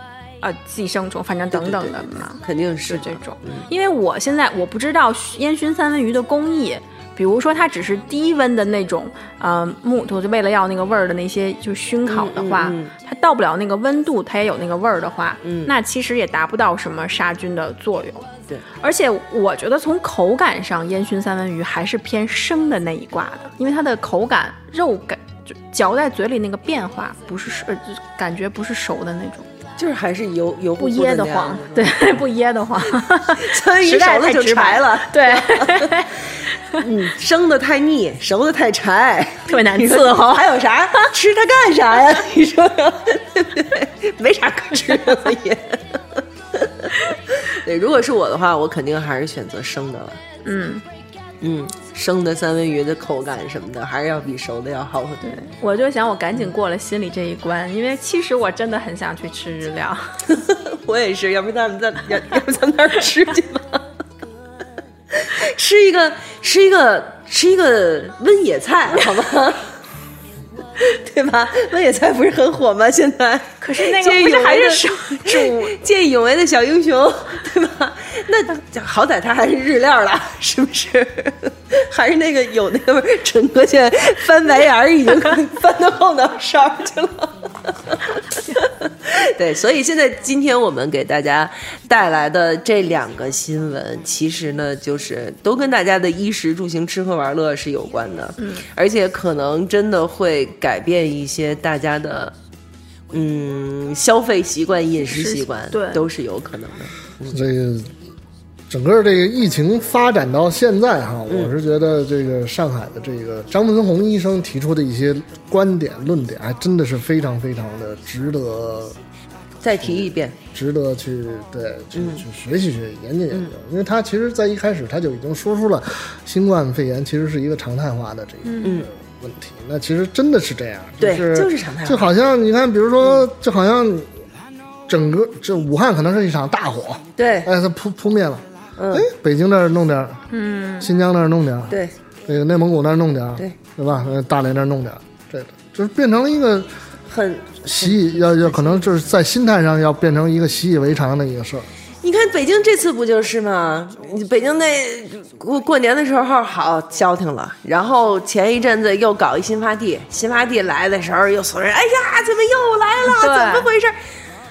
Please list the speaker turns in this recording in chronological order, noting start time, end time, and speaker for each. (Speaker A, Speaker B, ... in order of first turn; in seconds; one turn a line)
Speaker A: 0.4-18.3
Speaker B: 1.5-3.7
Speaker B: 12.1-12.9
Speaker B: 15.4-15.7
Speaker A: 18.8-29.5
Speaker B: 29.8-32.1
Speaker A: 30.8-36.8
Speaker B: 33.4-36.1
Speaker B: 36.8-50.2
Speaker A: 39.5-41.1
Speaker A: 50.4-50.8
Speaker B: 51.4-55.2
Speaker A: 55.2-60.2
Speaker B: 60.3-63.8
Speaker B: 65.1-69.7
Speaker B: 70.8-102.3
Speaker A: 73.6-75.7
Speaker A: 98.4-98.7
Speaker B: 103.1-107.4
Speaker A: 105.0-106.0
Speaker C: 107.3-107.9
Speaker C: 108.7-119.0
Speaker B: 111.3-111.5
Speaker B: 119.6-120.4
Speaker C: 119.8-134.1
Speaker B: 121.9-122.2
Speaker A: 128.4-128.8
Speaker B: 128.6-128.9
Speaker B: 131.0-132.1
Speaker C: 134.9-140.2
Speaker B: 137.2-137.5
Speaker B: 138.8-139.1
Speaker A: 140.3-140.9
Speaker C: 140.8-146.7
Speaker B: 147.1-148.8
Speaker C: 147.7-151.7
Speaker B: 152.0-164.0
Speaker A: 163.0-163.7